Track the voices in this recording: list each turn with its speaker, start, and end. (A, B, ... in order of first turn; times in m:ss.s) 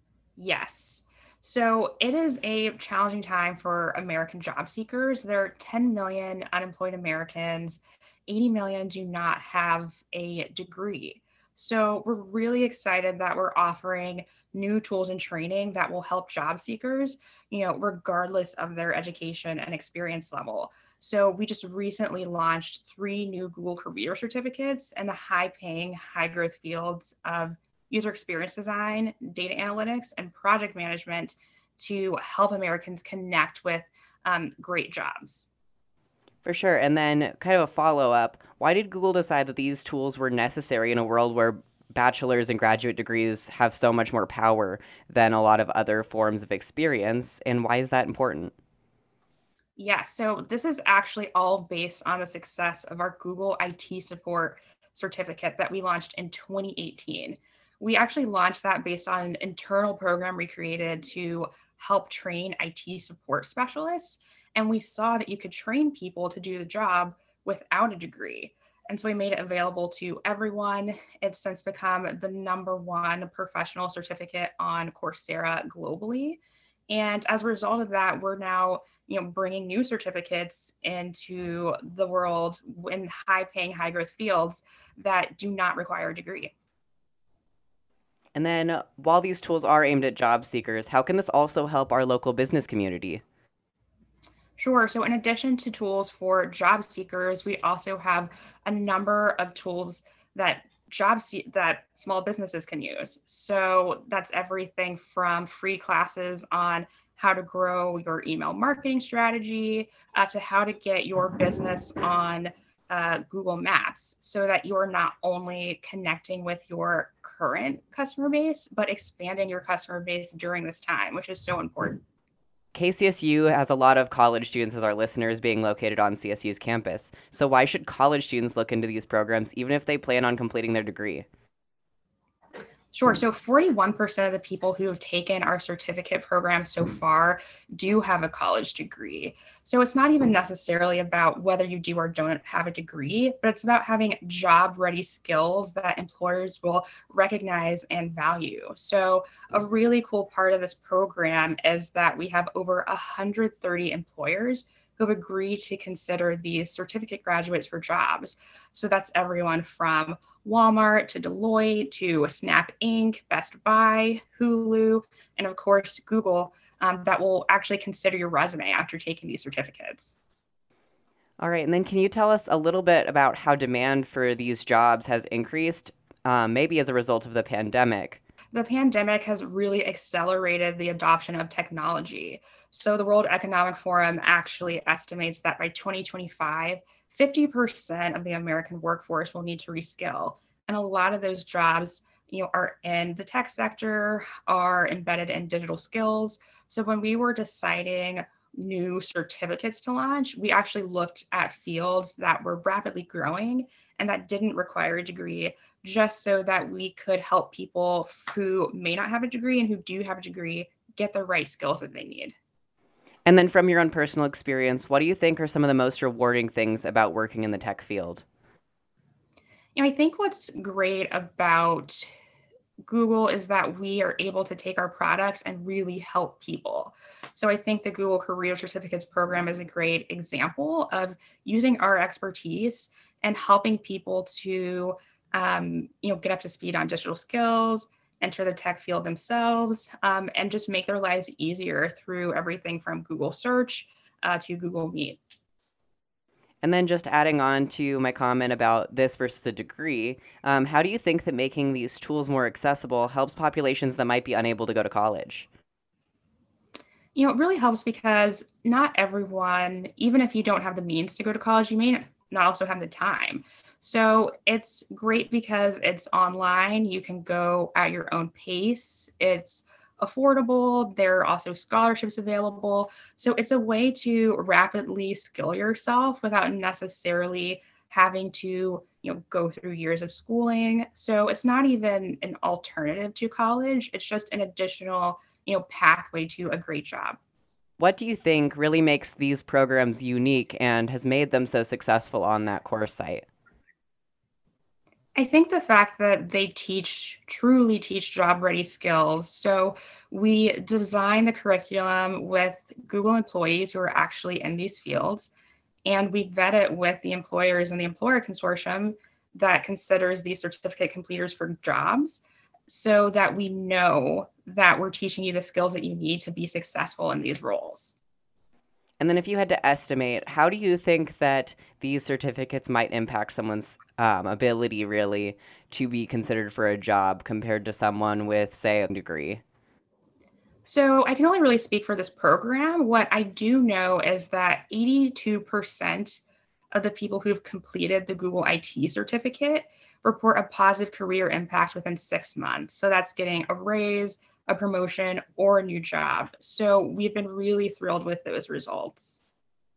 0:00.4-0:35.5 A
0:36.4-0:48.5 B
0:49.8-1:26.5 A
1:28.4-1:33.2 B
1:34.6-2:02.0 A
2:02.8-2:11.3 B
2:12.9-2:50.2 A
2:51.4-2:58.2 B
2:58.5-3:32.3 A
3:33.3-3:38.2 B
3:39.8-3:42.1 A
3:42.8-4:05.2 A
4:06.6-4:15.5 B
4:17.2-4:47.2 A
4:47.8-4:53.3 B
4:55.2-5:05.3 A
5:05.8-5:18.0 A
5:19.0-5:29.4 B
5:30.6-5:36.2 A
5:36.7-5:49.2 A